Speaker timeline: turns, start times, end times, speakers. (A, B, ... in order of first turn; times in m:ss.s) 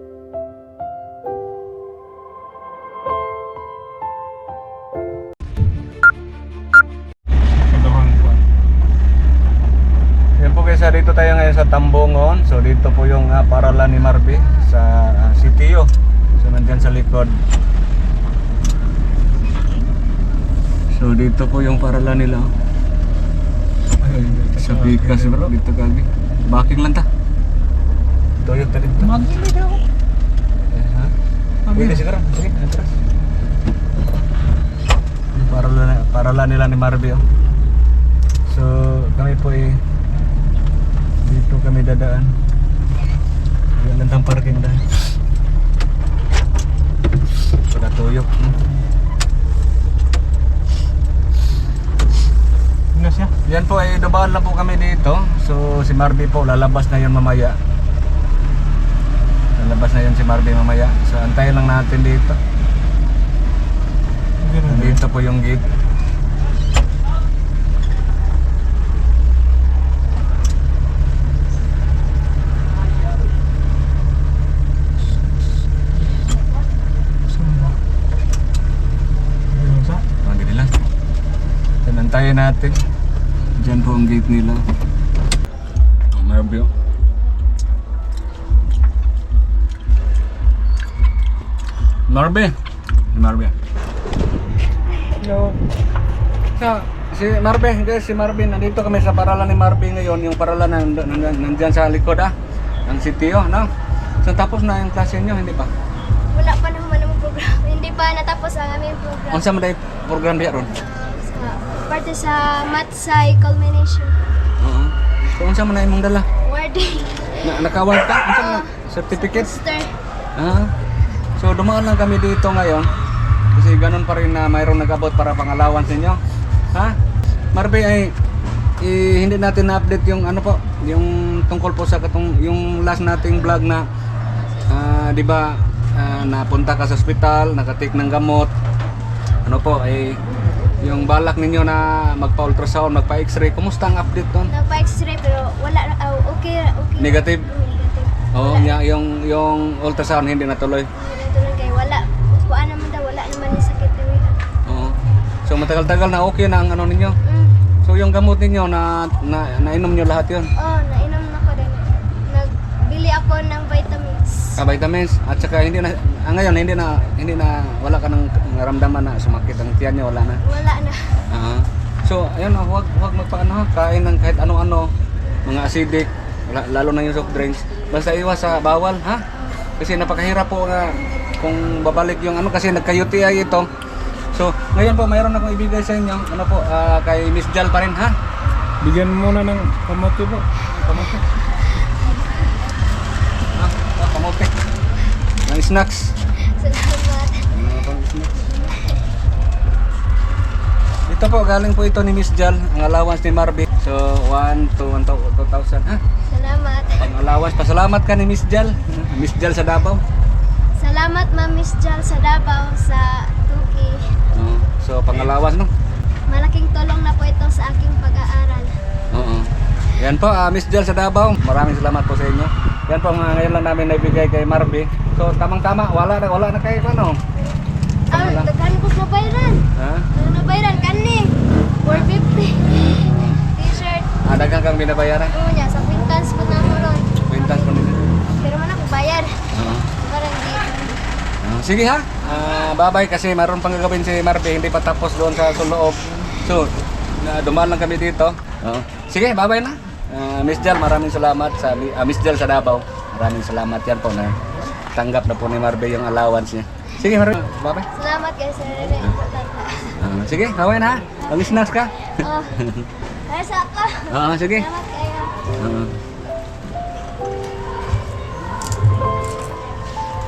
0:07.6-0:08.4 A
0:10.4-0:17.4 B
0:20.9-0:22.5 B
0:24.0-0:25.4 A
0:24.2-0:27.1 B
0:28.4-0:29.2 B
0:29.0-0:29.8 A
0:30.7-0:31.1 B
0:31.7-0:32.0 A
0:31.7-0:33.0 B
0:35.3-0:37.2 B
0:38.4-0:39.8 B
0:41.2-0:42.4 B
0:43.8-0:45.0 B
0:47.7-0:48.6 B
0:52.9-0:53.3 A
0:53.4-0:57.6 B
0:59.6-1:02.4 B
1:04.4-1:05.0 A
1:04.6-1:05.6 B
1:17.3-1:17.8 A
1:19.5-1:20.0 A
1:20.2-1:20.7 B
1:21.8-1:22.8 B
1:23.6-1:24.6 B
1:26.1-1:26.7 B
1:32.1-1:32.6 B
1:33.1-1:33.5 B
1:35.1-1:35.6 A
1:36.6-1:42.3 B
1:42.8-1:43.7 B
1:44.2-1:45.7 B
1:46.3-1:49.5 C
1:49.3-1:50.7 B
1:50.8-1:54.2 C
1:54.6-1:56.3 B
1:56.4-2:00.0 C
1:57.4-1:59.6 B
2:00.4-2:00.7 B
2:01.4-2:02.9 B
2:03.5-2:06.2 B
2:07.5-2:08.1 B
2:08.8-2:13.8 B
2:14.7-2:18.5 B
2:19.4-2:20.2 B
2:20.8-2:24.5 B
2:24.5-2:28.8 C
2:27.0-2:27.4 B
2:28.3-2:30.9 B
2:30.9-2:34.4 C
2:34.6-2:37.2 B
2:37.2-2:37.6 C
2:37.8-2:40.5 B
2:40.6-2:44.6 C
2:44.6-2:50.4 B
2:50.4-2:51.2 C
2:51.3-2:54.9 B
2:55.4-2:59.2 B
2:59.8-3:03.7 B
3:04.3-3:08.2 B
3:08.8-3:10.5 A
3:10.7-3:11.2 B
3:13.5-3:14.5 B
3:15.4-3:16.1 B
3:16.4-3:17.5 C
3:17.5-3:18.4 B
3:18.4-3:19.0 C
3:21.1-3:26.0 B
3:26.3-3:27.1 C
3:27.0-3:30.0 B
3:30.8-3:34.2 C
3:34.3-3:35.7 B
3:36.3-3:38.8 C
3:39.1-3:47.2 B
3:48.1-3:48.5 B
3:48.1-3:54.2 C
3:49.7-3:50.1 B
3:52.9-3:53.4 B
3:54.2-3:55.3 B
3:55.3-3:57.7 C
3:57.2-3:58.1 B
3:58.2-4:00.8 C
3:59.5-3:59.9 B
4:01.4-4:14.4 B
4:14.9-4:17.9 B
4:17.9-4:20.0 C
4:19.9-4:22.9 B
4:22.2-4:25.4 C
4:24.1-4:24.7 B
4:25.6-4:26.0 B